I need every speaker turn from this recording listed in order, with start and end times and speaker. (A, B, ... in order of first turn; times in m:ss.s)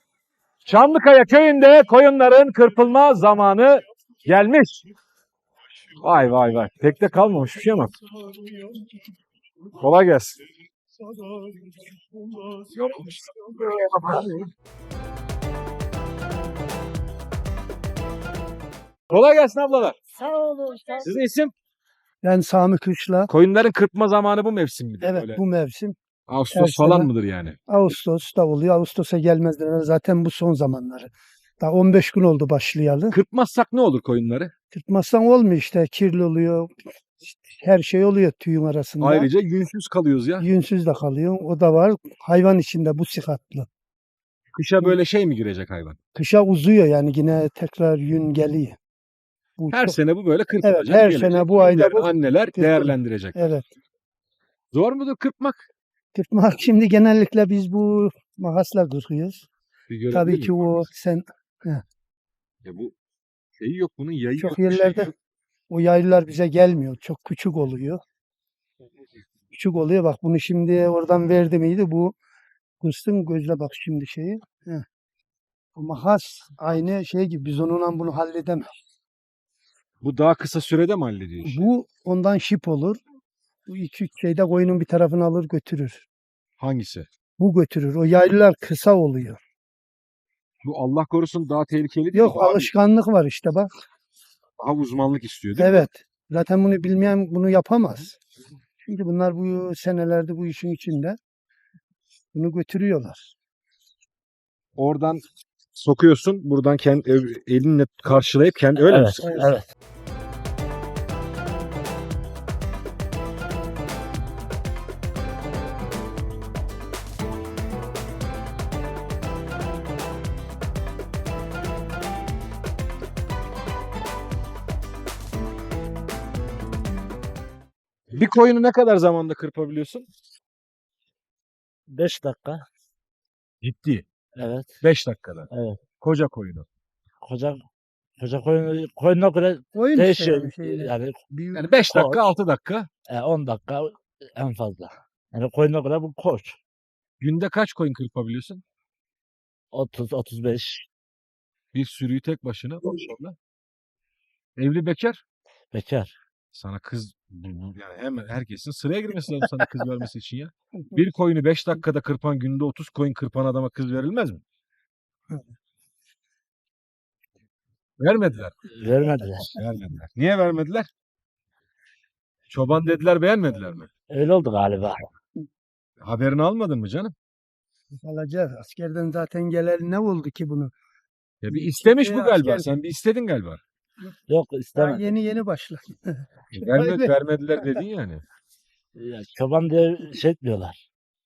0:00.6-0:04.8 A
0:06.0-0:08.0 A
0:09.8-0:10.4 A
0:12.7-0:14.5 A
0:19.1-0:20.0 A
0:20.2-0:21.1 B
0:21.0-0:21.5 A
0:22.2-0:23.3 C
0:23.3-0:25.4 A
0:25.0-0:26.0 C
0:26.3-0:27.6 A
0:26.5-0:27.1 C
0:27.7-0:33.2 C
0:33.1-0:34.5 A
0:34.7-0:36.7 C
0:37.2-0:39.3 C
0:39.0-0:40.5 A
0:40.4-0:43.7 C
0:44.5-0:46.0 A
0:46.2-0:48.8 C
0:49.6-0:50.0 C
0:49.7-0:53.5 A
0:50.6-0:53.6 C
0:54.7-0:55.7 A
0:56.1-0:59.5 C
0:59.9-1:00.9 A
1:00.1-1:01.8 C
1:02.6-1:02.9 A
1:03.6-1:05.1 A
1:04.4-1:05.1 C
1:05.7-1:08.0 C
1:09.5-1:12.2 C
1:12.8-1:14.8 C
1:15.8-1:18.7 C
1:20.0-1:21.6 A
1:21.4-1:23.0 C
1:23.7-1:26.1 C
1:26.6-1:27.1 A
1:27.4-1:29.4 C
1:30.6-1:32.7 A
1:32.1-1:33.7 C
1:34.6-1:35.9 A
1:35.6-1:38.2 C
1:38.9-1:41.2 C
1:42.3-1:43.3 C
1:44.8-1:45.2 A
1:45.8-1:49.2 A
1:48.8-1:49.7 B
1:49.2-1:49.5 C
2:08.1-2:10.1 A
2:11.9-2:12.7 B
2:13.6-2:14.0 A
2:14.4-2:14.8 B
2:14.8-2:15.5 A
2:15.5-2:15.8 B
2:16.0-2:16.7 A
2:17.2-2:17.6 B
2:18.2-2:21.2 B
2:19.7-2:21.8 C
2:21.5-2:22.9 A
2:21.8-2:22.2 B
2:23.1-2:26.6 B
2:27.2-2:28.6 A
2:29.7-2:30.9 B
2:31.7-2:33.4 A
2:34.6-2:35.2 A
2:35.7-2:36.2 B
2:36.5-2:44.4 A
2:48.0-2:48.5 A
2:48.7-2:49.5 B
2:49.5-2:50.9 A
2:52.5-2:53.9 A
2:54.1-2:55.1 B
2:56.0-2:57.1 A
2:57.9-3:00.7 C
3:01.4-3:03.6 A
3:01.5-3:02.7 C
3:04.3-3:05.0 B
3:04.7-3:07.8 C
3:06.5-3:08.2 A
3:09.0-3:10.8 B